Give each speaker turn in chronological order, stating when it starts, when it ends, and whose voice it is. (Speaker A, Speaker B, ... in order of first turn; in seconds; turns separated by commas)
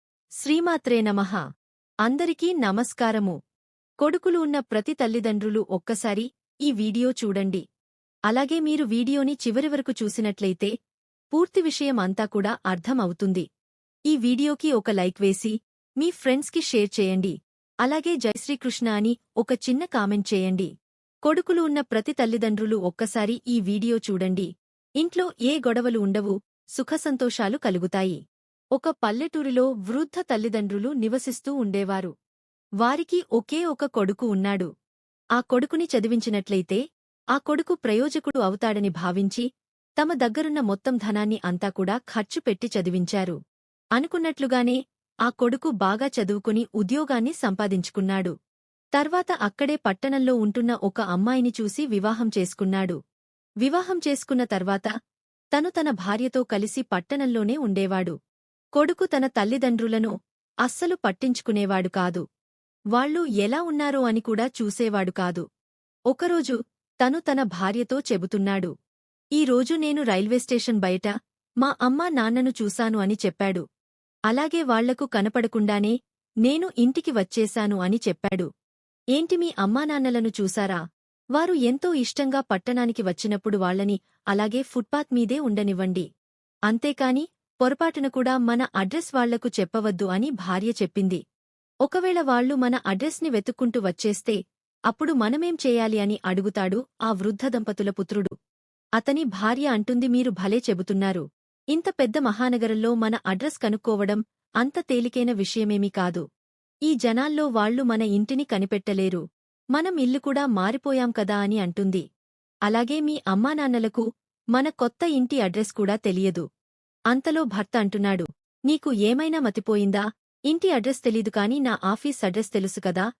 Speaker A: 0.4-1.4, Speaker A: 2.0-3.4, Speaker A: 4.0-7.6, Speaker A: 8.3-10.7, Speaker A: 11.3-13.4, Speaker A: 14.1-20.7, Speaker A: 21.2-28.2, Speaker A: 28.7-32.1, Speaker A: 32.8-34.7, Speaker A: 35.4-36.8, Speaker A: 37.3-39.5, Speaker A: 40.0-43.4, Speaker A: 44.0-48.3, Speaker A: 49.0-53.0, Speaker A: 53.6-54.9, Speaker A: 55.5-58.1, Speaker A: 58.7-60.1, Speaker A: 60.6-62.2, Speaker A: 62.9-65.4, Speaker A: 66.1-68.7, Speaker A: 69.4-73.6, Speaker A: 74.3-78.5, Speaker A: 79.1-80.8, Speaker A: 81.3-86.1, Speaker A: 86.7-91.2, Speaker A: 91.8-94.4, Speaker A: 94.9-98.3, Speaker A: 99.0-101.2, Speaker A: 101.7-106.2, Speaker A: 106.9-109.2, Speaker A: 109.7-112.0, Speaker A: 112.7-114.0, Speaker A: 114.5-116.4, Speaker A: 117.1-123.0